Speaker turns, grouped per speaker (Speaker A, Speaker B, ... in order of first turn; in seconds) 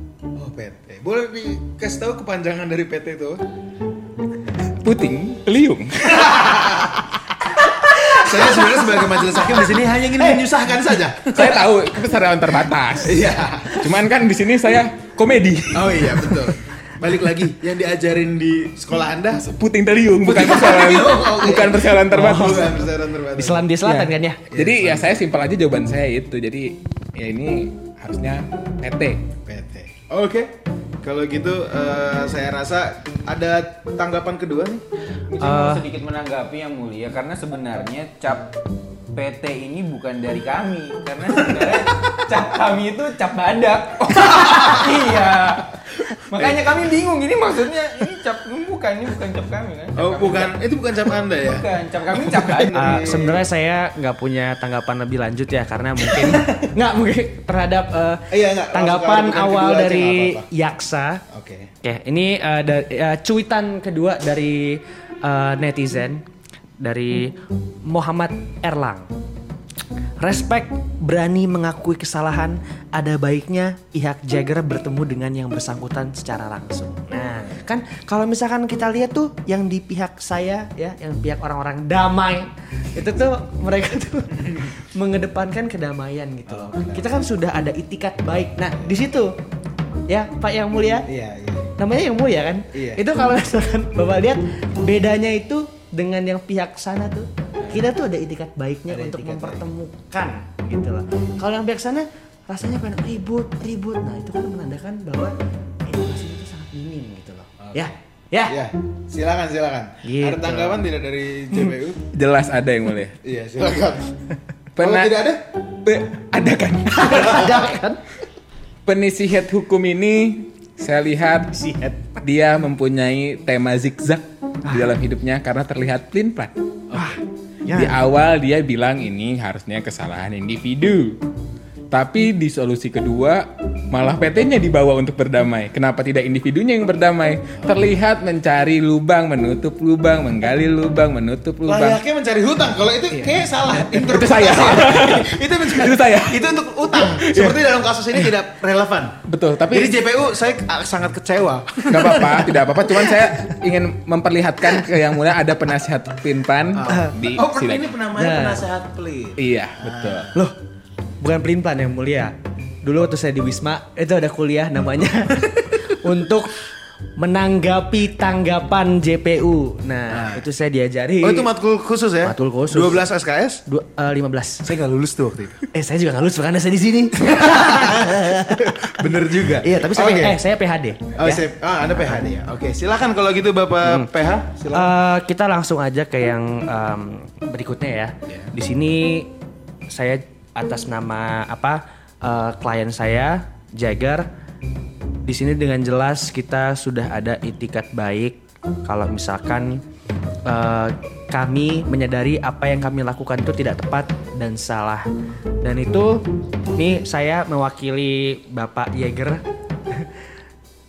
Speaker A: 0.3-3.4, 6.1-7.0, 8.1-11.6, 13.0-13.8, 15.7-19.4, 20.2-23.7, 24.5-25.1, 29.4-34.8, 41.3-42.2, 44.1-44.9, 49.9-53.5, 56.0-56.7, 58.3-60.5, 61.3-61.7, 86.5-87.1, 91.0-91.7, 92.7-93.0, 98.9-99.6, 107.6-107.9, 108.5-112.0, 113.2-114.2, 114.8-115.4, 141.7-152.5, 156.7-160.3, 170.1-170.4, 171.2-173.6, 174.6-175.7, 177.2-180.4, 181.2-184.9
Speaker B: 4.8-6.8, 11.3-16.5, 19.4-22.8, 23.8-29.2, 112.1-113.2, 114.8-115.1, 115.8-117.7, 118.8-121.5, 122.2-127.1, 127.7-131.2, 131.9-142.0, 143.1-147.6, 149.2-149.9, 151.9-157.9, 159.4-160.3
Speaker C: 7.9-9.5, 10.2-10.6, 22.1-22.7, 23.3-24.4, 35.4-35.8, 52.7-61.2, 61.8-66.2, 66.8-69.1, 70.2-89.3, 90.1-91.1, 91.8-108.6, 110.0-110.8, 117.0-118.0, 121.5-122.1, 126.9-128.0, 152.8-153.3, 156.9-157.1, 158.1-158.6, 161.2-166.6, 167.2-171.5, 172.2-173.0, 173.7-174.7, 175.7-181.4, 183.8-184.1, 184.7-189.3, 189.9-194.3, 195.2-199.8, 200.4-205.1, 205.6-206.2, 206.8-210.1
Speaker D: 35.3-38.5, 39.1-50.6, 51.4-53.0